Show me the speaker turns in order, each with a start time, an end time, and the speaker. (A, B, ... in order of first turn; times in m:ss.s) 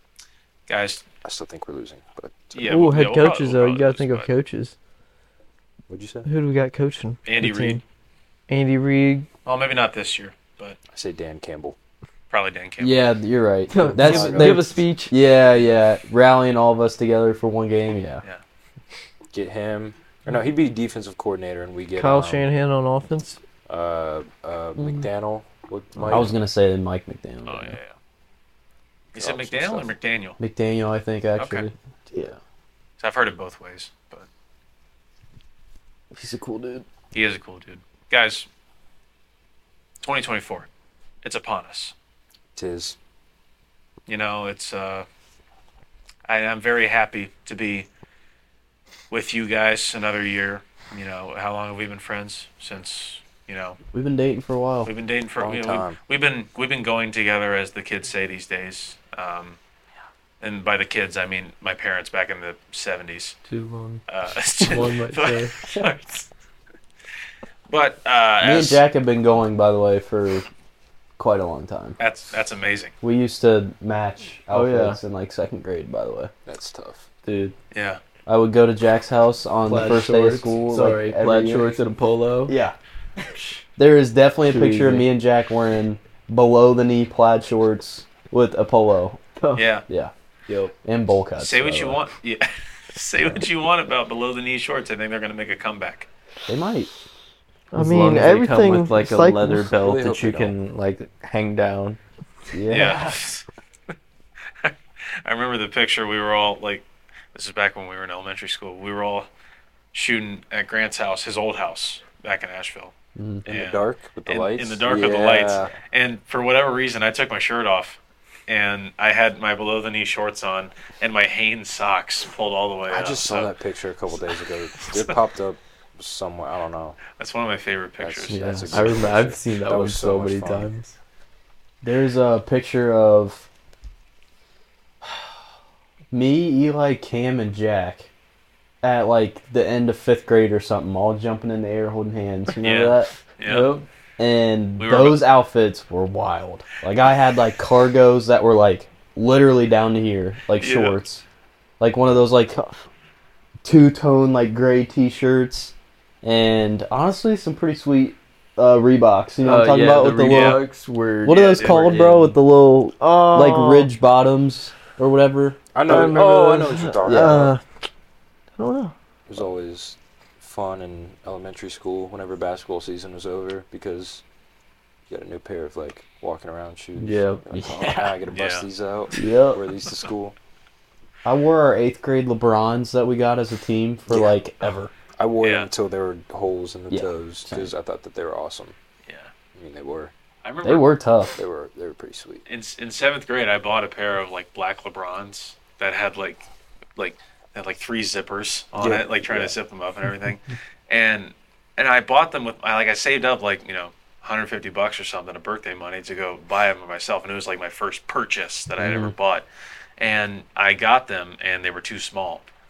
0:00.7-0:01.0 A
0:01.2-0:02.6 B
0:02.5-0:04.3 A
0:02.6-0:04.7 C
0:05.9-0:06.3 B
0:06.2-0:07.8 C
0:07.2-0:07.8 A
0:08.5-0:09.3 C
0:09.4-0:10.8 A
0:10.9-0:11.8 B
0:12.3-0:13.0 A
0:12.8-0:18.2 D
0:13.7-0:15.1 C
0:13.8-0:14.8 B
0:19.3-0:22.4 B
0:22.0-0:23.4 C
0:23.7-0:26.3 B
0:26.1-0:27.8 D
0:27.4-0:27.9 A
0:29.1-0:30.4 A
0:29.2-0:29.9 B
0:30.4-0:32.3 D
0:31.4-0:31.7 A
0:33.0-0:34.3 A
0:36.1-0:36.8 D
0:37.1-0:38.5 A
0:40.0-0:40.7 A
0:41.2-0:41.9 A
0:42.6-0:43.0 B
0:44.1-0:45.0 A
0:46.3-0:47.9 A
0:49.1-0:53.8 A
0:53.9-0:54.9 D
0:54.8-0:59.6 A
0:55.4-0:56.0 B
1:00.4-1:03.4 A
1:03.5-1:04.0 C
1:04.1-1:06.3 A
1:04.6-1:05.5 E
1:07.7-1:08.8 A
1:08.4-1:10.5 D
1:11.2-1:12.0 D
1:12.0-1:12.9 A
1:13.0-1:16.3 D
1:14.5-1:15.0 E
1:16.4-1:17.1 B
1:17.2-1:17.5 E
1:17.7-1:18.0 A
1:18.2-1:21.7 D
1:19.7-1:22.5 E
1:22.5-1:22.7 D
1:23.8-1:29.2 D
1:24.5-1:25.1 E
1:29.5-1:29.8 A
1:29.9-1:30.1 D
1:30.5-1:30.7 E
1:30.8-1:32.0 D
1:31.4-1:36.1 A
1:36.5-1:36.9 D
1:37.7-1:39.7 C
1:37.7-1:42.0 E
1:39.7-1:40.6 B
1:42.5-1:43.2 D
1:42.7-1:43.4 A
1:44.6-1:49.3 A
1:49.9-1:52.9 A
1:53.2-1:53.4 D
1:53.4-1:55.7 B
1:53.5-2:03.5 A
2:02.9-2:07.0 B
2:04.8-2:05.2 A
2:07.1-2:09.0 A
2:08.0-2:10.7 B
2:08.3-2:10.9 E
2:08.4-2:08.8 D
2:11.8-2:13.5 D
2:16.1-2:18.1 D
2:18.8-2:23.1 D
2:22.6-2:23.7 A
2:23.4-2:23.8 E
2:24.2-2:31.2 D
2:24.8-2:25.2 A
2:30.6-2:31.0 A
2:31.8-2:32.6 D
2:32.5-2:32.9 C
2:33.6-2:40.6 D
2:39.4-2:42.4 E
2:40.2-2:40.6 A
2:41.2-2:46.0 D
2:41.3-2:42.0 A
2:43.0-2:43.9 C
2:45.7-2:47.5 B
2:45.8-2:47.6 C
2:47.0-2:47.4 D
2:48.6-2:48.9 C
2:49.3-2:54.2 B
2:55.1-3:00.4 B
2:57.0-2:57.5 E
2:57.5-2:58.2 D
2:58.3-2:58.7 A
2:59.1-2:59.6 D
2:59.2-2:59.6 E
3:01.2-3:04.9 D
3:04.1-3:04.4 B
3:05.2-3:08.7 B
3:05.4-3:05.7 A
3:06.9-3:07.7 D
3:09.0-3:09.3 A
3:09.5-3:10.1 B
3:10.4-3:10.9 A
3:10.6-3:11.4 D
3:11.4-3:12.4 B
3:12.4-3:29.4 A
3:18.8-3:19.5 B
3:28.8-3:29.1 D
3:30.0-3:32.4 A